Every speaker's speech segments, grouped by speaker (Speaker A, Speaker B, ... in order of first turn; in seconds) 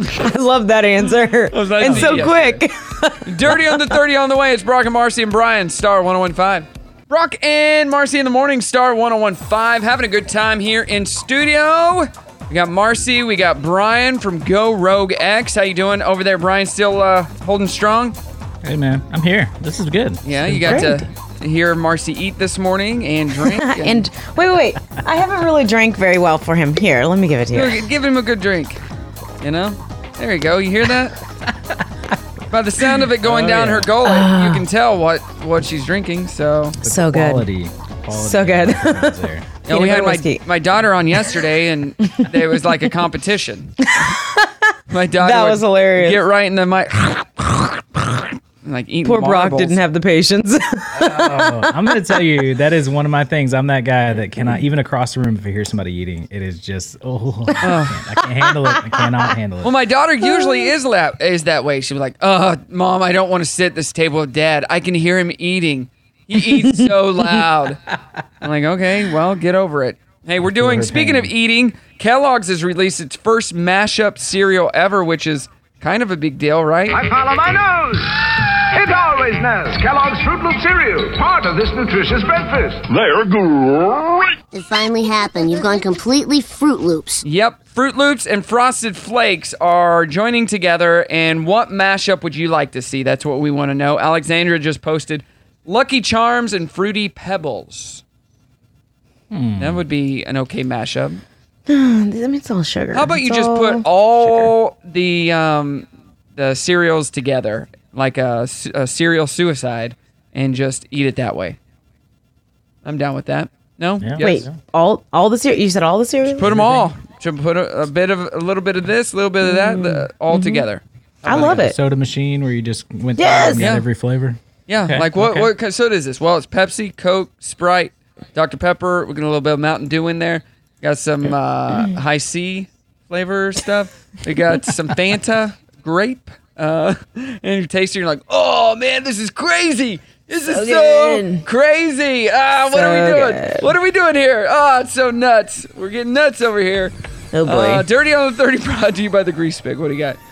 Speaker A: 0.2-3.9, 20.6-21.0, 23.4-27.9, 34.0-34.6, 36.8-37.5, 38.1-40.4, 44.0-44.6, 45.2-46.2, 49.0-51.6, 60.3-60.7, 66.5-66.9, 101.7-104.5, 114.2-116.7, 119.4-120.7, 121.2-121.8, 123.2-123.6, 140.4-141.4, 142.7-143.7, 147.3-147.8
Speaker B: 1.5-2.6, 3.2-18.2, 20.2-24.1, 27.5-28.8, 29.4-31.1, 32.5-36.8, 39.7-44.0, 44.9-47.5, 48.6-49.8, 57.6-58.0, 59.6-67.8, 68.4-77.0, 87.2-98.0, 99.6-101.2, 102.9-111.6, 112.8-114.4, 116.3-121.6, 123.6-123.9, 124.7-146.9, 147.4-150.2
Speaker C: 1.8-2.3, 18.6-21.0, 33.1-33.9, 36.8-39.5, 50.9-59.8, 70.4-71.3, 99.3-99.8, 114.0-114.5, 116.5-116.8, 121.3-125.5
Speaker D: 76.9-84.3
Speaker E: 84.5-87.2